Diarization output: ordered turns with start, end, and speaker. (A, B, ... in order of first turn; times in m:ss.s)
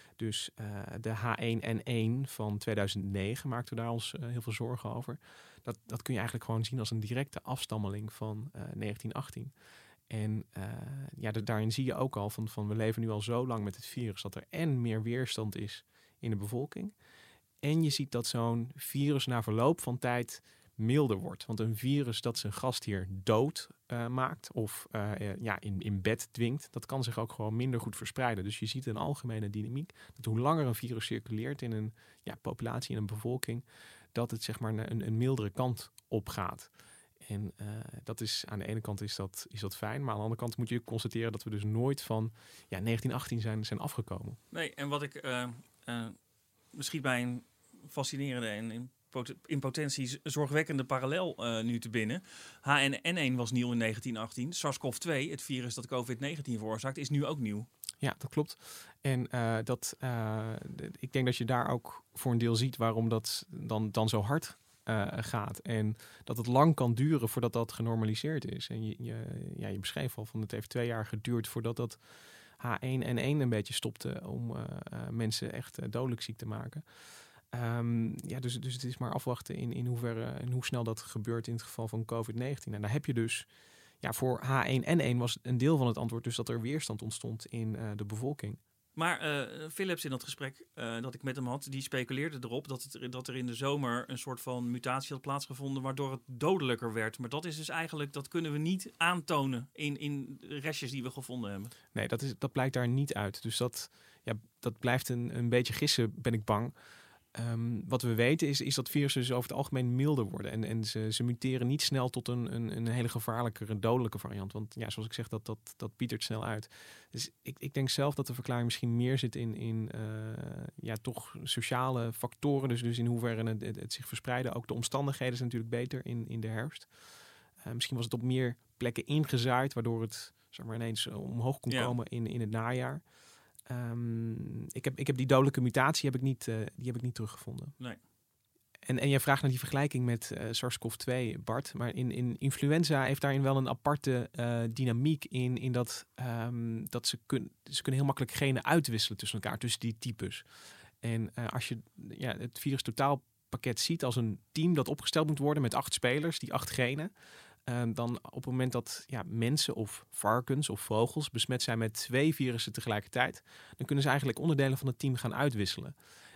0:00.2-0:09.5 A
0:10.1-0:16.9 A
0:17.6-0:36.7 A
0:37.2-0:44.4 A
0:44.5-0:46.2 B
0:46.7-0:57.7 B
0:58.0-1:12.0 A
1:12.6-1:16.8 A
1:17.5-1:23.5 A
1:24.0-1:28.6 A
1:29.0-1:41.7 B
1:41.9-1:46.7 A
1:47.3-2:06.9 A
2:07.6-2:13.0 A
2:11.7-2:11.9 B
2:13.7-2:17.7 A
2:18.8-2:30.4 A
2:31.0-2:37.1 A
2:37.6-2:45.9 A